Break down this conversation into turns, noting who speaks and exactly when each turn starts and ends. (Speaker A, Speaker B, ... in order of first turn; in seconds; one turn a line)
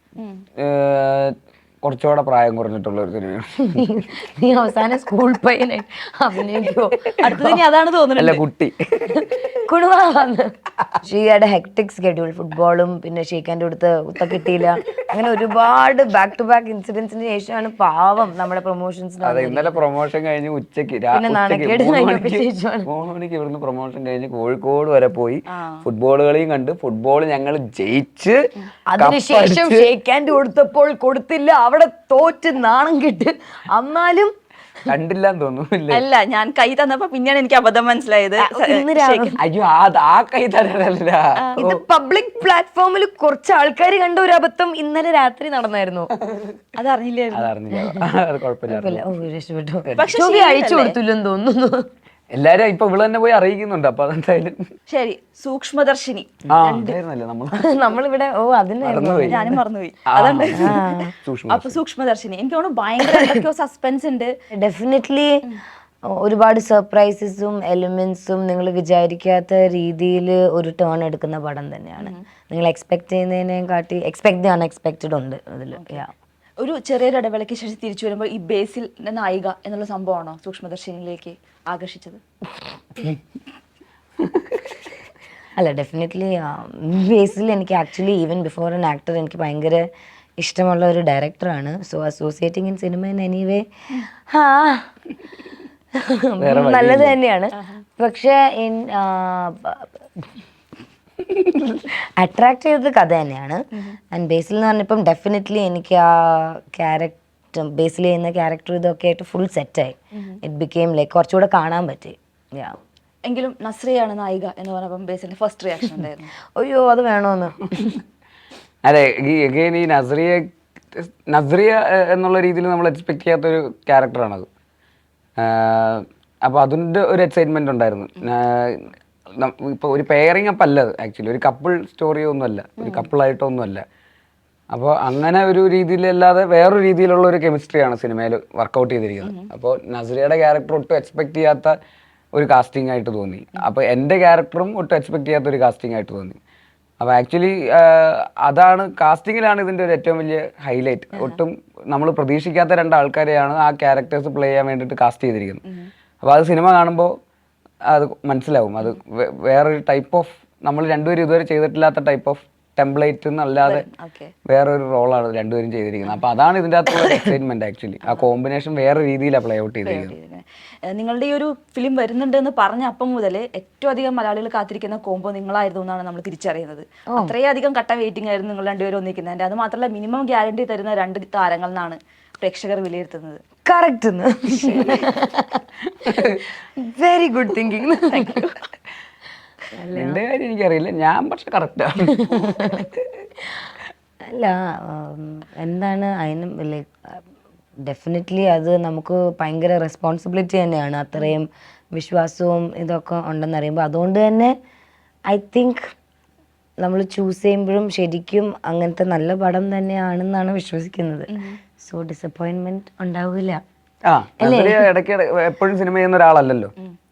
Speaker A: 0.2-0.4
Speaker B: 0.6-3.9
Speaker C: 3.7-7.6
Speaker A: 7.2-8.4
Speaker B: 7.3-7.6
Speaker B: 8.2-9.5
Speaker C: 9.2-19.8
Speaker B: 19.2-28.4
Speaker C: 21.1-22.9
Speaker A: 25.5-25.8
Speaker C: 28.9-34.3
Speaker B: 29.0-29.9
Speaker B: 34.9-36.0
Speaker A: 35.9-39.4
Speaker C: 38.4-39.4
Speaker B: 39.4-41.8
Speaker A: 41.4-41.7
Speaker C: 41.6-46.1
Speaker A: 46.8-47.5
Speaker B: 47.3-49.0
Speaker C: 47.7-48.1
Speaker C: 48.7-51.9
Speaker A: 50.0-51.0
Speaker B: 52.3-54.6
Speaker A: 54.9-57.0
Speaker B: 56.5-57.8
Speaker C: 57.5-59.6
Speaker B: 58.8-59.5
Speaker A: 59.3-64.3
Speaker B: 60.1-61.8
Speaker C: 60.5-61.1
Speaker C: 64.5-65.4
Speaker C: 66.1-76.1
Speaker A: 75.7-76.0
Speaker A: 76.6-82.2
Speaker B: 84.2-84.9
Speaker C: 85.5-89.8
Speaker C: 90.4-94.9
Speaker C: 96.0-99.9
Speaker B: 96.4-97.2
Speaker A: 97.5-97.8
Speaker B: 101.2-101.9
Speaker C: 102.2-112.8
Speaker A: 110.1-110.4
Speaker A: 113.2-116.3
Speaker C: 116.5-118.0
Speaker B: 118.8-124.5
Speaker B: 125.4-133.8
Speaker A: 132.8-133.1
Speaker B: 134.7-141.8
Speaker A: 139.2-139.5
Speaker B: 142.3-146.4
Speaker B: 147.0-155.6
Speaker B: 156.2-157.2
Speaker B: 157.9-163.8
Speaker A: 163.6-164.3
Speaker B: 164.4-170.1
Speaker A: 169.8-183.4
Speaker C: 183.7-185.6
Speaker A: 184.6-185.1
Speaker B: 185.9-186.4
Speaker C: 186.8-188.4
Speaker A: 188.1-188.5
Speaker C: 189.8-190.2
Speaker B: 189.9-193.2
Speaker C: 192.1-192.9
Speaker C: 194.3-197.2
Speaker C: 197.8-204.5
Speaker C: 205.3-205.9
Speaker C: 206.8-213.6
Speaker A: 211.3-211.6
Speaker B: 214.1-216.7
Speaker C: 214.4-214.9